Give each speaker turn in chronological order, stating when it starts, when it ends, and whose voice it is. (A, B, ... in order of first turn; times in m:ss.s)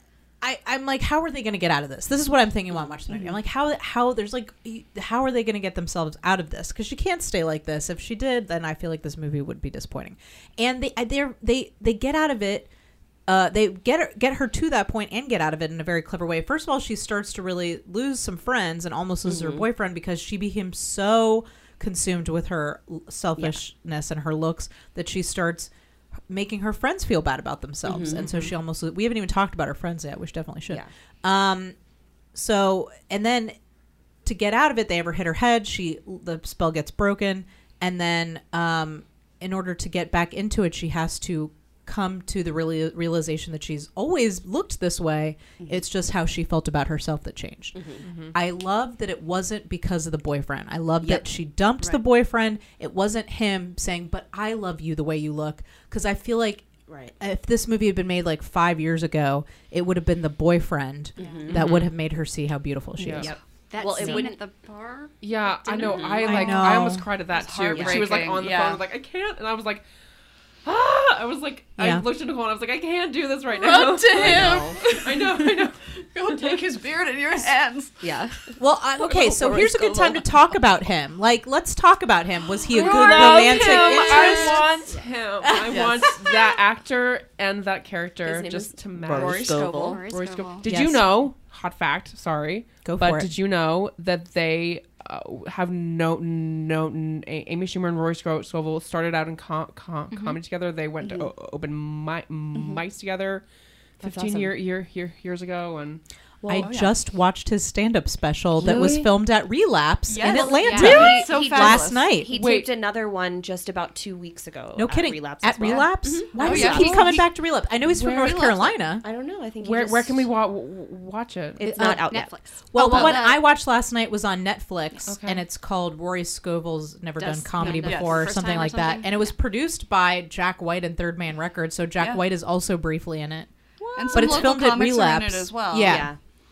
0:00.4-0:12.7 A
0:03.1-0:03.4 B
0:13.3-0:25.7 A
0:19.2-0:19.6 C
0:26.3-0:31.8 A
0:27.8-0:28.5 C
0:32.3-0:33.5 A
0:34.2-0:47.8 A
0:47.7-0:48.0 C
0:48.0-0:48.4 D
0:48.3-0:56.7 A
0:56.9-0:57.1 C
0:57.2-1:03.3 A
1:01.2-1:01.7 C
1:01.2-1:01.5 E
1:01.5-1:01.9 D
1:03.0-1:03.3 D
1:03.2-1:04.4 C
1:03.7-1:06.6 E
1:05.2-1:09.8 D
1:05.7-1:06.3 C
1:06.2-1:07.1 A
1:07.3-1:08.8 B
1:07.7-1:08.1 C
1:10.6-1:16.6 D
1:11.8-1:12.1 A
1:13.5-1:15.5 B
1:16.0-1:18.6 B
1:18.0-1:18.5 C
1:18.6-1:24.7 A
1:19.1-1:20.2 C
1:22.7-1:43.4 D
1:22.8-1:24.6 B
1:25.4-1:25.7 A
1:25.7-1:26.3 B
1:28.2-1:30.0 C
1:29.0-1:30.1 B
1:29.8-1:30.6 E
1:30.6-1:31.1 A
1:32.8-1:33.3 A
1:40.1-1:40.4 E
1:41.0-1:41.3 B
1:42.5-1:42.8 B
1:44.0-1:44.5 C
1:44.0-1:46.0 D
1:46.4-1:46.9 B
1:46.5-1:52.3 A
1:48.6-1:49.1 D
1:50.1-1:52.0 B
1:50.2-1:57.1 C
1:50.5-1:51.3 E
1:52.3-1:52.7 D
1:54.8-1:59.0 A
1:56.4-1:57.2 E
1:56.4-1:57.0 B
1:57.8-1:58.6 D
1:58.3-2:00.3 C
1:59.6-2:01.6 D
2:01.6-2:03.2 C
2:01.7-2:02.1 A
2:01.8-2:03.5 E
2:02.7-2:13.5 A
2:05.1-2:05.4 D
2:07.4-2:09.3 E
2:07.8-2:08.3 B
2:12.0-2:12.2 B
2:14.0-2:16.1 B
2:14.0-2:14.4 E
2:14.1-2:16.1 A
2:15.8-2:16.2 C